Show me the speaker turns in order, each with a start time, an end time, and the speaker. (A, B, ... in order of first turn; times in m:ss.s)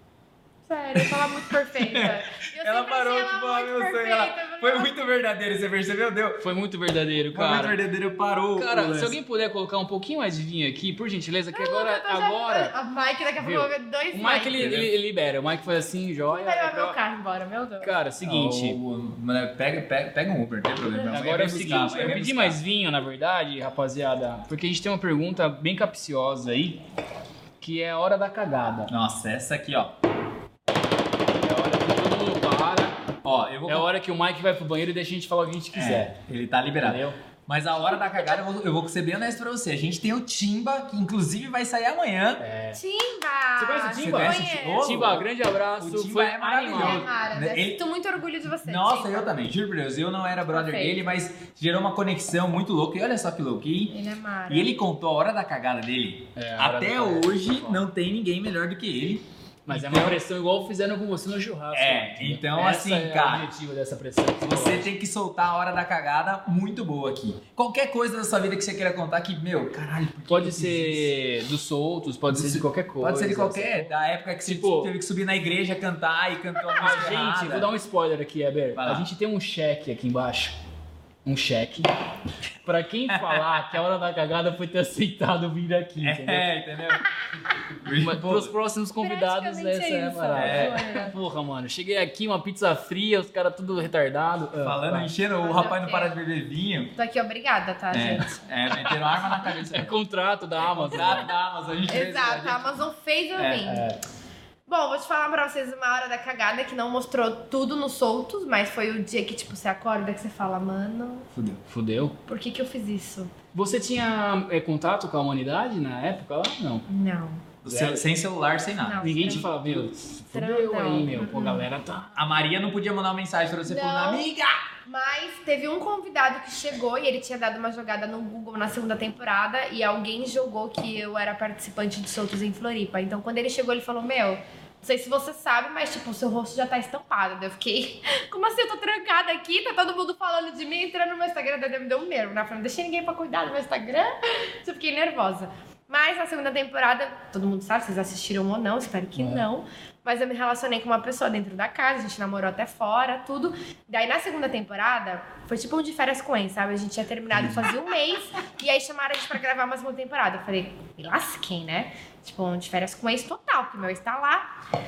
0:00.7-0:05.0 A
0:01.0-0:06.5 B
0:06.4-0:07.8 C
0:07.3-0:09.2 B
0:08.6-0:12.7 C
0:11.5-0:14.8 A
0:13.4-0:17.0 C
0:14.6-0:14.9 B
0:16.3-0:18.0 A
0:17.8-0:18.8 C
0:18.2-0:22.6 B
0:20.8-0:22.1 A
0:21.1-0:26.8 C
0:27.6-0:28.9 C
0:28.9-0:30.0 B
0:31.3-0:33.0 C
0:33.2-0:33.9 B
0:33.7-0:36.1 C
0:35.7-0:42.5 B
0:36.8-0:37.2 C
0:37.9-0:38.4 A
0:42.4-0:42.8 C
0:42.7-0:45.0 A
0:43.6-0:47.1 C
0:44.0-0:47.8 B
0:46.7-0:49.3 A
0:48.6-0:54.0 B
0:50.4-0:51.0 A
0:53.9-0:54.7 A
0:54.5-1:00.2 B
0:56.4-0:57.8 C
0:59.7-1:04.9 C
1:01.7-1:03.5 B
1:04.4-1:11.2 B
1:10.3-1:13.9 C
1:12.3-1:17.7 B
1:14.4-1:14.9 C
1:16.8-1:20.6 C
1:18.8-1:19.1 B
1:21.2-1:21.9 C
1:22.6-1:26.5 C
1:23.1-1:23.6 B
1:26.0-1:27.1 B
1:27.8-1:28.5 B
1:28.0-1:35.1 C
1:29.0-1:31.2 A
1:30.3-1:30.8 B
1:34.6-1:36.9 B
1:35.4-1:36.2 A
1:37.0-1:38.4 A
1:37.9-1:40.0 B
1:38.9-1:41.3 C
1:40.6-1:42.8 B
1:41.9-1:43.8 A
1:43.4-1:43.8 B
1:43.6-1:44.0 C
1:44.7-1:51.3 A
1:51.3-1:51.6 B
1:51.7-1:52.2 C
1:52.3-1:53.3 A
1:53.5-1:56.9 C
1:56.9-1:57.4 A
1:57.6-1:59.8 B
1:57.6-1:58.0 C
1:58.8-1:59.5 A
1:59.0-2:02.3 C
2:00.3-2:01.7 A
2:02.2-2:04.7 B
2:03.7-2:04.3 A
2:04.8-2:44.6 A
2:29.2-2:29.4 C